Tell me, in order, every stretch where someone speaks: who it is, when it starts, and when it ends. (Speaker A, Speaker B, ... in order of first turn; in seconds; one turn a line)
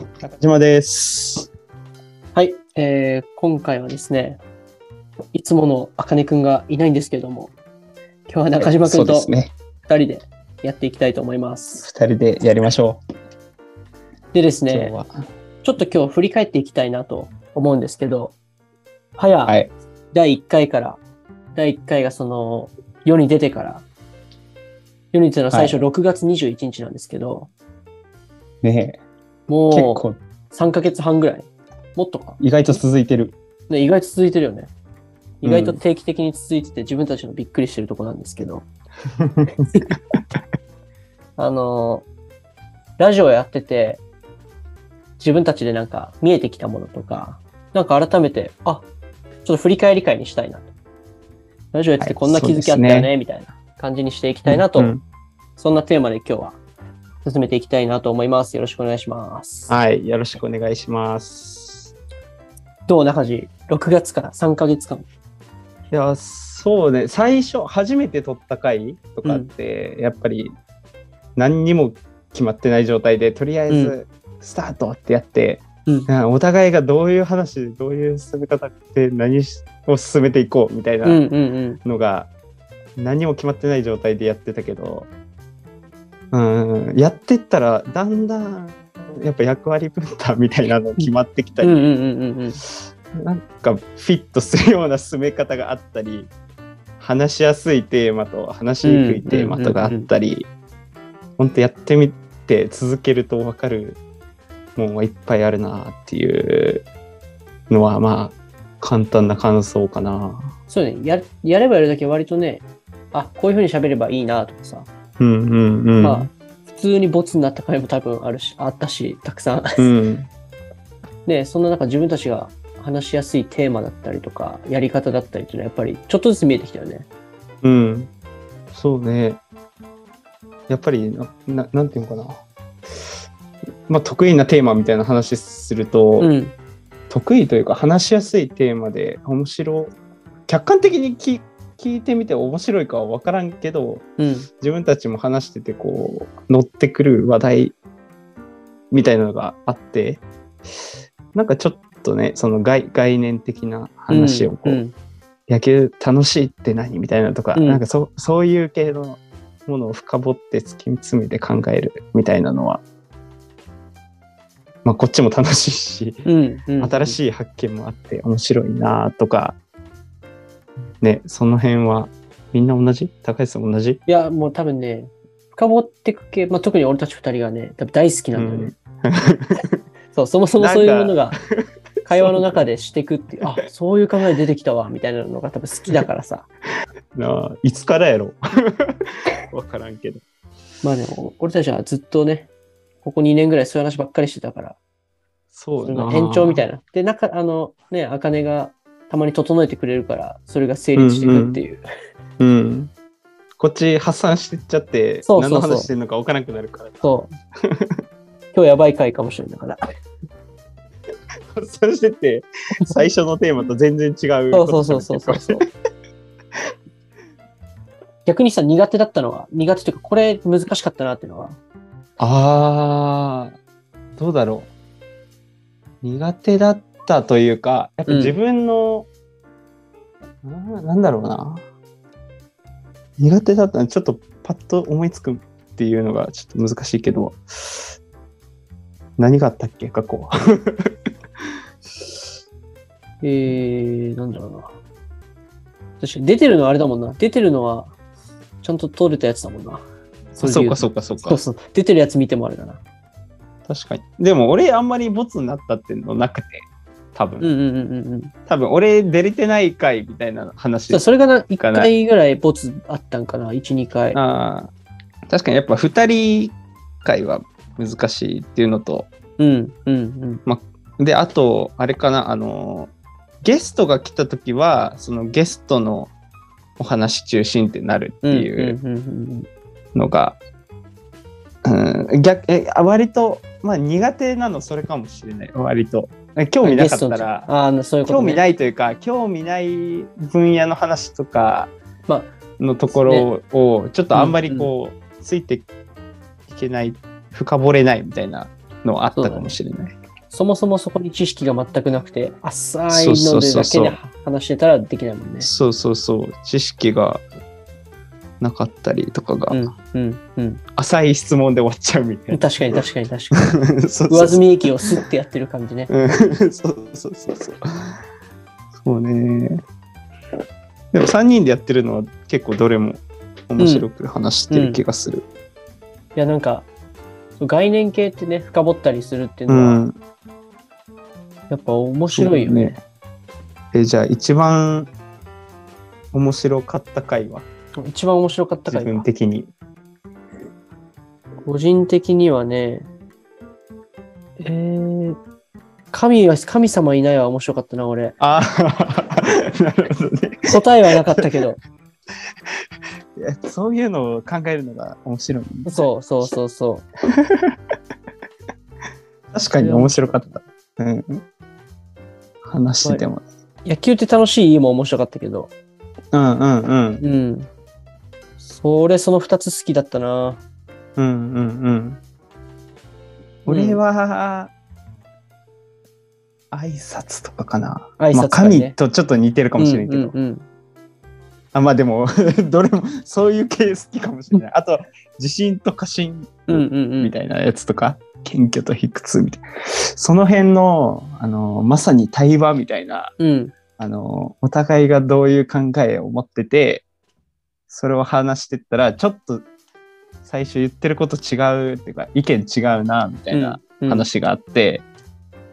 Speaker A: 0.2-1.5
Speaker B: 2.4-4.4
Speaker B: 5.3-7.5
Speaker B: 8.3-11.9
Speaker A: 8.6-9.5
Speaker A: 11.8-13.0
Speaker B: 14.3-14.9
Speaker A: 14.7-15.1
Speaker B: 15.6-18.4
Speaker B: 19.2-19.6
Speaker A: 19.5-19.7
Speaker B: 20.1-21.0
Speaker B: 21.6-23.9
Speaker B: 25.1-27.5
Speaker A: 28.6-29.0
Speaker B: 29.5-32.8
Speaker A: 29.7-30.2
Speaker A: 32.4-33.4
Speaker B: 33.7-34.7
Speaker B: 35.4-38.7
Speaker A: 35.4-35.8
Speaker A: 39.2-39.5
Speaker B: 41.4-42.1
Speaker B: 43.0-44.0
Speaker B: 45.2-48.9
Speaker B: 49.5-50.7
Speaker B: 51.7-55.0
Speaker A: 52.0-53.1
Speaker A: 54.5-55.0
Speaker B: 55.6-56.6
Speaker B: 57.2-59.7
Speaker A: 59.7-61.9
Speaker B: 62.9-65.1
Speaker A: 65.9-70.5
Speaker A: 71.4-81.2
Speaker B: 73.7-74.0
Speaker B: 81.0-81.8
Speaker A: 81.8-82.3
Speaker A: 83.0-85.1
Speaker A: 86.3-91.9
Speaker B: 91.0-92.6
Speaker A: 93.2-96.3
Speaker A: 97.0-100.5
Speaker B: 98.8-100.1
Speaker A: 101.4-104.0
Speaker A: 104.8-106.9
Speaker A: 107.7-110.5
Speaker B: 110.7-114.9
Speaker A: 115.2-116.3
Speaker B: 116.0-119.8
Speaker A: 119.8-120.3
Speaker B: 121.3-127.1
Speaker A: 127.6-128.1
Speaker A: 128.7-129.4
Speaker A: 130.7-132.4
Speaker A: 133.9-136.3
Speaker B: 136.2-136.5
Speaker A: 137.1-139.9
Speaker A: 140.5-144.1
Speaker B: 144.2-144.5
Speaker A: 144.6-147.8
Speaker A: 148.9-150.2
Speaker A: 151.3-154.8
Speaker B: 154.1-154.9
Speaker A: 155.5-162.8
Speaker B: 157.6-157.8
Speaker A: 164.8-166.2
Speaker B: 166.3-167.2
Speaker A: 166.8-169.6
Speaker A: 171.0-174.0
Speaker B: 174.1-178.7
Speaker A: 178.3-179.8
Speaker B: 180.1-181.4
Speaker A: 180.6-182.6
Speaker B: 182.1-186.5
Speaker A: 187.2-188.9
Speaker A: 189.5-190.2
Speaker B: 190.8-192.5
Speaker B: 193.0-194.8
Speaker A: 195.5-196.7
Speaker B: 195.8-201.8
Speaker A: 201.0-201.6
Speaker A: 202.4-202.9
Speaker A: 203.6-207.1
Speaker B: 205.2-205.9
Speaker B: 207.0-207.3
Speaker A: 207.7-207.9
Speaker B: 208.5-209.8
Speaker A: 211.5-215.6
Speaker B: 214.5-215.6
Speaker B: 218.2-221.6
Speaker A: 222.2-223.5
Speaker A: 224.2-224.7
Speaker A: 226.0-229.1
Speaker B: 228.1-228.4
Speaker A: 230.4-231.7
Speaker A: 233.2-237.9
Speaker A: 239.2-240.9
Speaker B: 243.2-244.8
Speaker B: 246.0-247.9
Speaker B: 248.6-249.8
Speaker A: 250.3-251.4
Speaker B: 250.4-252.8
Speaker A: 253.7-257.5
Speaker B: 257.4-258.3
Speaker A: 258.5-261.1
Speaker B: 260.9-264.2
Speaker A: 261.6-261.9
Speaker A: 264.1-264.7
Speaker A: 265.3-269.1
Speaker B: 269.4-270.4
Speaker A: 270.5-276.1
Speaker A: 276.8-278.8
Speaker B: 278.3-279.5
Speaker A: 279.9-280.4
Speaker A: 281.6-287.5
Speaker B: 286.6-288.4
Speaker A: 288.1-291.7
Speaker B: 292.1-292.4
Speaker A: 292.6-295.7
Speaker B: 292.9-293.3
Speaker B: 294.1-294.7
Speaker A: 296.5-300.0
Speaker B: 299.1-299.5
Speaker B: 300.3-305.5
Speaker A: 302.9-304.0
Speaker A: 305.4-307.2
Speaker A: 308.4-309.6
Speaker B: 309.5-310.6
Speaker A: 310.8-312.8
Speaker B: 312.3-313.6
Speaker A: 313.4-314.5
Speaker B: 314.1-315.9
Speaker A: 315.9-318.0
Speaker A: 318.8-319.6
Speaker A: 320.9-325.3
Speaker B: 323.6-323.9
Speaker B: 324.5-324.8
Speaker B: 326.2-326.7
Speaker B: 327.4-329.8
Speaker A: 329.5-330.0
Speaker B: 331.5-332.8
Speaker A: 332.1-332.8
Speaker A: 333.7-334.9
Speaker A: 336.1-337.5
Speaker B: 337.8-339.1
Speaker A: 338.7-339.5
Speaker B: 341.4-342.9
Speaker B: 344.4-345.2
Speaker B: 345.9-348.1
Speaker A: 348.2-350.6
Speaker B: 350.5-351.6
Speaker A: 353.2-356.3
Speaker B: 355.7-356.9
Speaker A: 359.3-361.2
Speaker B: 359.6-360.4
Speaker A: 362.4-363.2
Speaker B: 363.6-365.5
Speaker A: 366.1-367.0
Speaker B: 367.0-367.5
Speaker B: 368.5-370.4
Speaker A: 371.0-372.0
Speaker A: 373.4-374.5
Speaker B: 373.5-373.8
Speaker A: 376.5-380.1
Speaker B: 378.0-378.8
Speaker B: 379.6-380.5
Speaker A: 381.5-389.4
Speaker B: 386.5-387.1
Speaker A: 389.9-393.1
Speaker B: 393.2-393.5
Speaker A: 393.8-396.9
Speaker A: 397.7-399.5
Speaker A: 400.2-404.9
Speaker B: 403.3-404.1